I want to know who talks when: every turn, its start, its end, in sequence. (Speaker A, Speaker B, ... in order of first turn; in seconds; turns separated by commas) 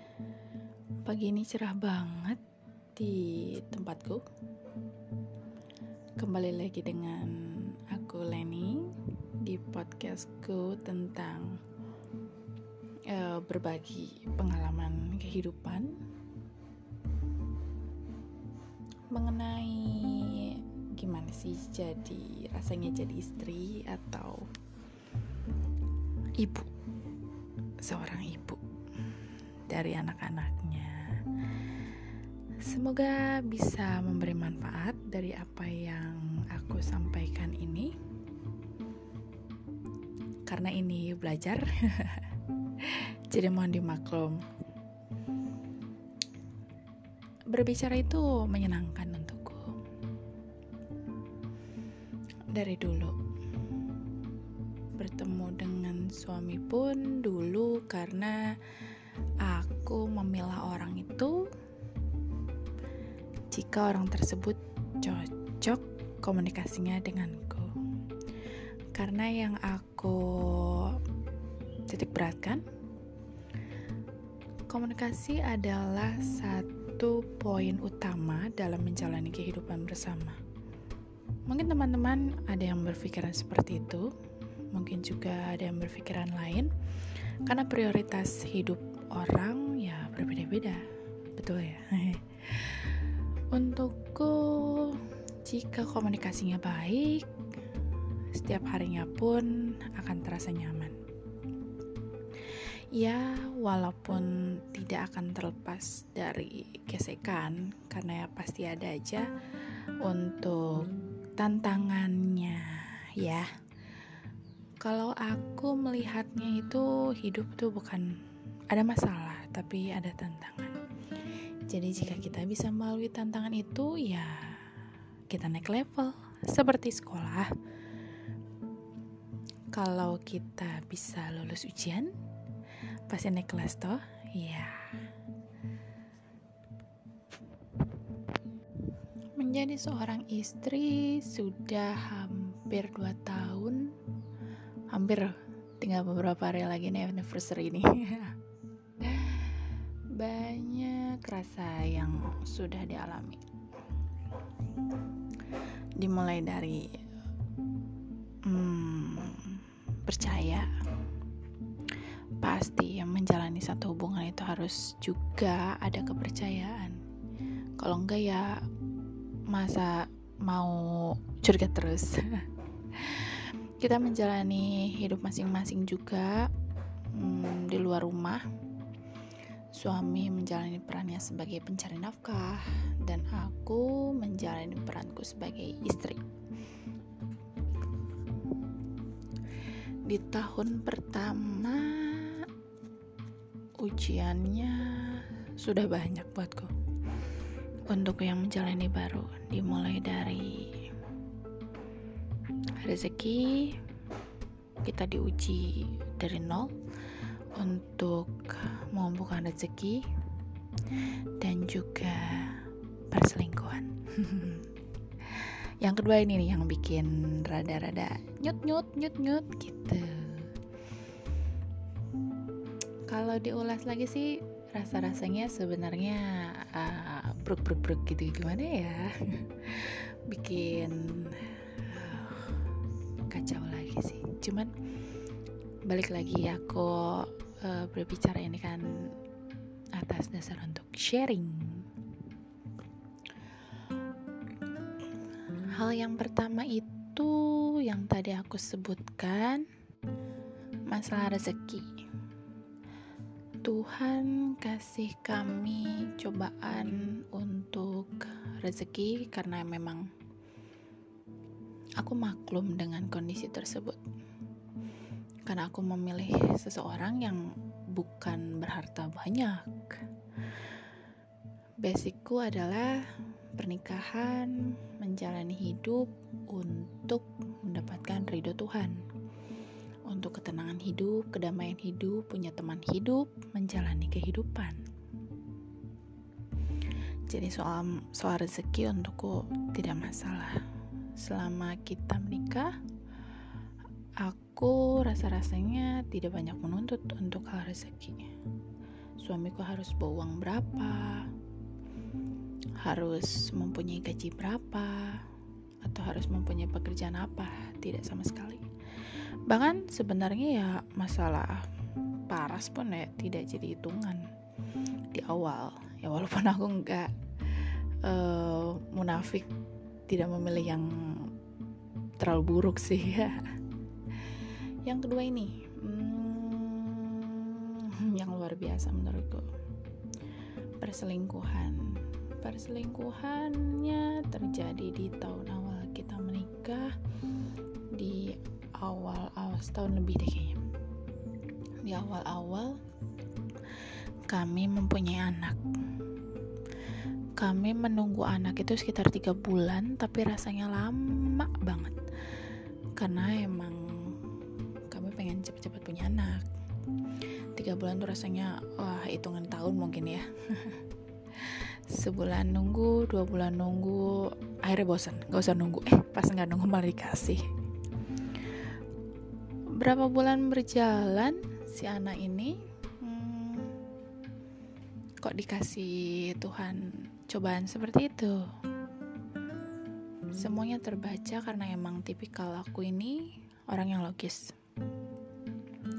Speaker A: 1.0-2.4, Speaker A: 3.0-4.2, Speaker A: 6.2-11.6, Speaker A: 13.1-15.9, Speaker A: 19.1-24.5, Speaker A: 26.4-26.7, Speaker A: 27.8-28.6, Speaker A: 29.7-31.1, Speaker A: 32.6-37.9, Speaker A: 40.5-42.3, Speaker A: 42.8-44.4, Speaker A: 47.5-49.7, Speaker A: 52.5-53.1, Speaker A: 55.0-58.4, Speaker A: 59.4-61.4, Speaker A: 63.5-67.7, Speaker A: 68.9-71.0, Speaker A: 71.9-72.6, Speaker A: 74.7-80.4, Speaker A: 81.5-84.1, Speaker A: 84.7-86.7, Speaker A: 87.4-90.8, Speaker A: 91.3-97.3, Speaker A: 98.3-101.0, Speaker A: 102.5-109.3, Speaker A: 110.0-113.5, Speaker A: 114.8-118.1, Speaker A: 118.7-120.8, Speaker A: 121.7-124.5, Speaker A: 125.3-127.5, Speaker A: 129.7-132.1, Speaker A: 133.1-134.8, Speaker A: 139.4-143.9, Speaker A: 144.9-148.3, Speaker A: 149.0-153.4, Speaker A: 156.0-157.0, Speaker A: 158.4-160.7, Speaker A: 162.4-167.0, Speaker A: 167.8-168.6, Speaker A: 169.5-176.5, Speaker A: 177.1-178.4, Speaker A: 179.7-186.2, Speaker A: 190.1-192.5, Speaker A: 193.8-196.7, Speaker A: 197.9-200.9, Speaker A: 202.8-203.8, Speaker A: 204.8-206.8, Speaker A: 207.5-210.0, Speaker A: 211.4-214.7, Speaker A: 215.2-220.5, Speaker A: 223.1-232.7, Speaker A: 233.3-234.7, Speaker A: 235.8-239.1, Speaker A: 239.9-241.9, Speaker A: 245.7-249.6, Speaker A: 250.9-251.9, Speaker A: 253.6-260.1, Speaker A: 262.0-264.0, Speaker A: 265.4-270.0, Speaker A: 271.8-279.0, Speaker A: 280.1-284.8, Speaker A: 287.3-290.6, Speaker A: 291.2-292.7, Speaker A: 294.2-298.3, Speaker A: 299.2-301.3, Speaker A: 302.8-305.2, Speaker A: 305.8-308.6, Speaker A: 309.4-311.7, Speaker A: 312.3-314.2, Speaker A: 315.1-319.5, Speaker A: 320.1-321.3, Speaker A: 322.2-323.6, Speaker A: 324.3-329.5, Speaker A: 330.8-336.9, Speaker A: 337.9-340.6, Speaker A: 341.8-342.8, Speaker A: 344.3-345.6, Speaker A: 347.4-352.0, Speaker A: 352.9-354.2, Speaker A: 354.9-356.4, Speaker A: 357.6-360.8, Speaker A: 361.3-367.4, Speaker A: 369.8-373.7, Speaker A: 375.2-378.4, Speaker A: 380.3-384.5